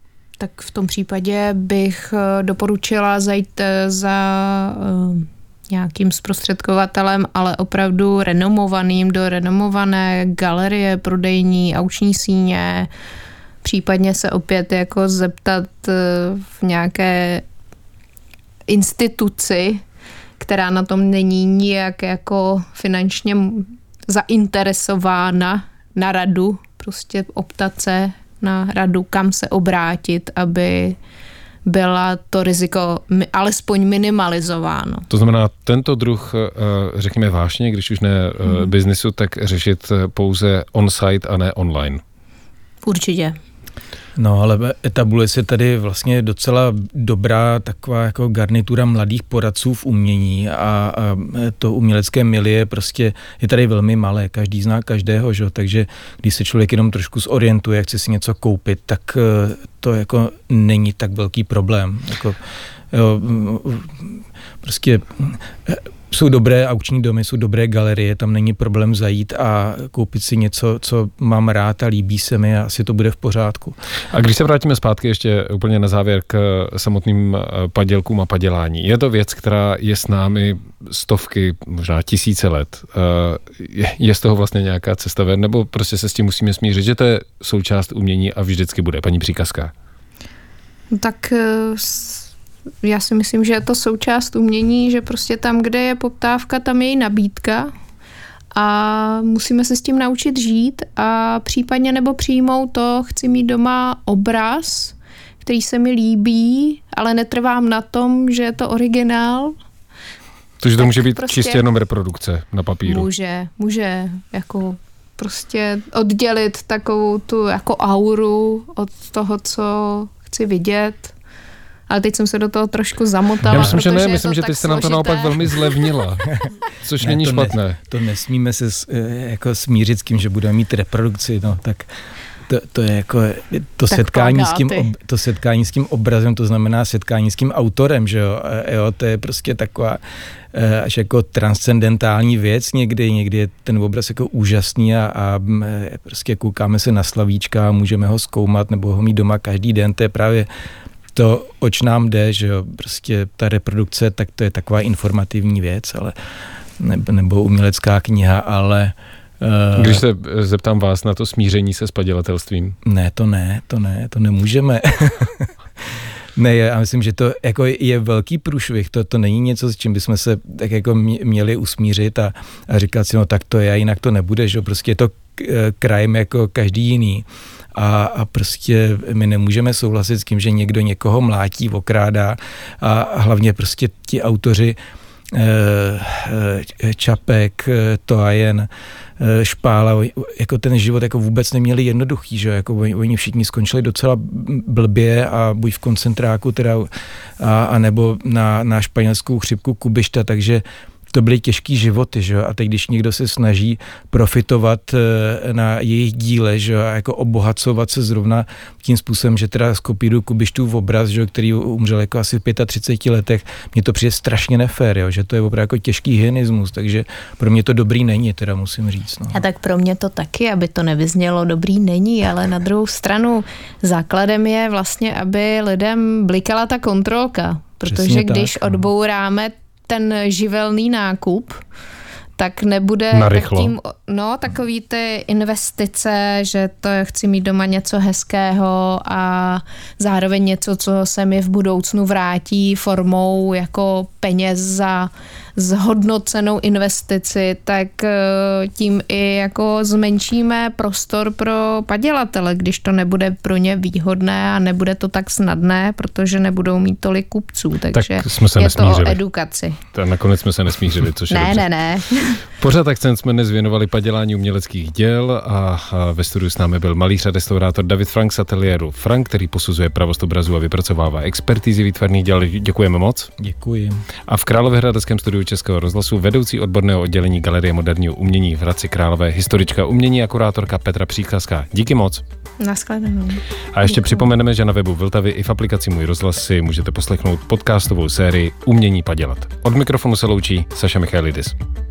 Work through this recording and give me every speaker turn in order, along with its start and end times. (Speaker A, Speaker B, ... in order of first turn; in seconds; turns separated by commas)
Speaker A: 0.4-12.9, Speaker A: 13.6-17.4, Speaker A: 18.7-19.8, Speaker A: 20.4-31.0, Speaker A: 31.6-35.0, Speaker B: 35.1-42.0, Speaker A: 42.8-43.4, Speaker C: 44.1-62.4, Speaker C: 62.9-73.8, Speaker B: 74.1-89.7, Speaker A: 90.9-92.3, Speaker A: 92.8-97.7, Speaker A: 98.5-109.5, Speaker B: 110.6-113.1, Speaker A: 110.8-111.6, Speaker A: 112.8-121.1, Speaker A: 121.9-125.6, Speaker B: 123.5-127.8, Speaker C: 127.0-131.9, Speaker C: 132.5-140.0, Speaker A: 133.9-134.9, Speaker C: 140.5-150.5, Speaker C: 151.1-156.1, Speaker C: 156.8-160.0, Speaker B: 159.8-162.8, Speaker C: 162.8-184.8, Speaker C: 185.3-219.4, Speaker A: 219.3-231.6, Speaker C: 227.8-228.8, Speaker A: 232.4-259.8, Speaker B: 233.1-233.7, Speaker B: 257.9-259.2, Speaker B: 259.9-261.6, Speaker A: 261.3-262.4, Speaker B: 262.6-273.3, Speaker C: 273.4-274.0, Speaker B: 274.3-282.2, Speaker A: 282.6-284.2, Speaker B: 283.7-291.6